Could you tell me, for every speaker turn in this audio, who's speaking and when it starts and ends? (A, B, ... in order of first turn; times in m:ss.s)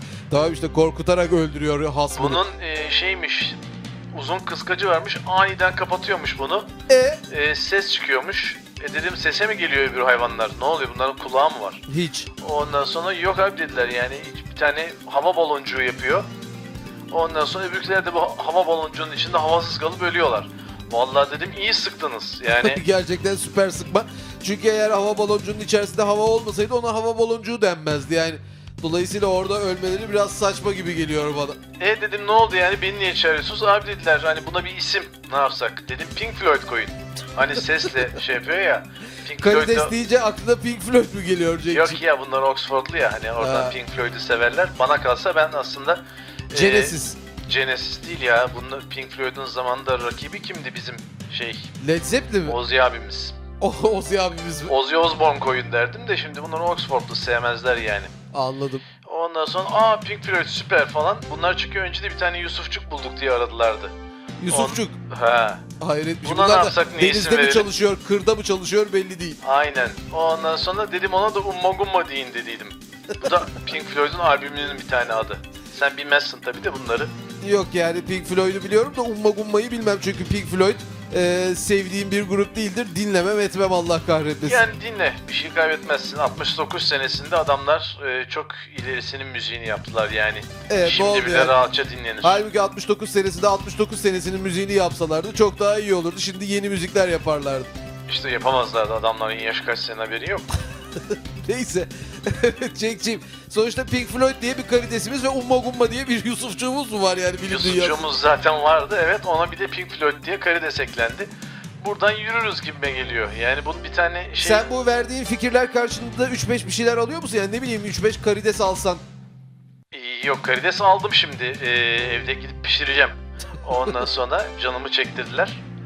0:00.3-0:02.5 A
0:02.2-0:03.6 B
0:04.1-0:06.7 B
0:06.9-0:07.2 A
0:07.3-0:11.8 B
0:11.9-0:12.3 A
0:12.4-0:16.3 B
0:17.1-0:22.8 B
0:22.5-0:31.6 A
0:31.8-0:39.9 B
0:39.4-0:42.0 A
0:41.7-0:51.7 B
0:43.4-0:43.8 A
0:46.5-0:47.2 A
0:51.8-0:52.6 A
0:52.4-0:53.4 B
0:53.6-0:54.8 A
0:54.7-0:58.1 B
0:58.3-0:58.8 A
0:59.0-1:03.9 B
1:04.4-1:05.0 A
1:04.5-1:05.6 B
1:05.8-1:09.4 A
1:06.2-1:07.7 B
1:09.4-1:17.1 B
1:17.4-1:24.6 A
1:24.4-1:32.4 B
1:30.7-1:31.6 A
1:32.2-1:37.7 A
1:38.1-1:40.5 B
1:41.5-1:48.1 A
1:47.5-1:54.7 B
1:54.4-1:59.0 A
1:59.9-2:05.6 B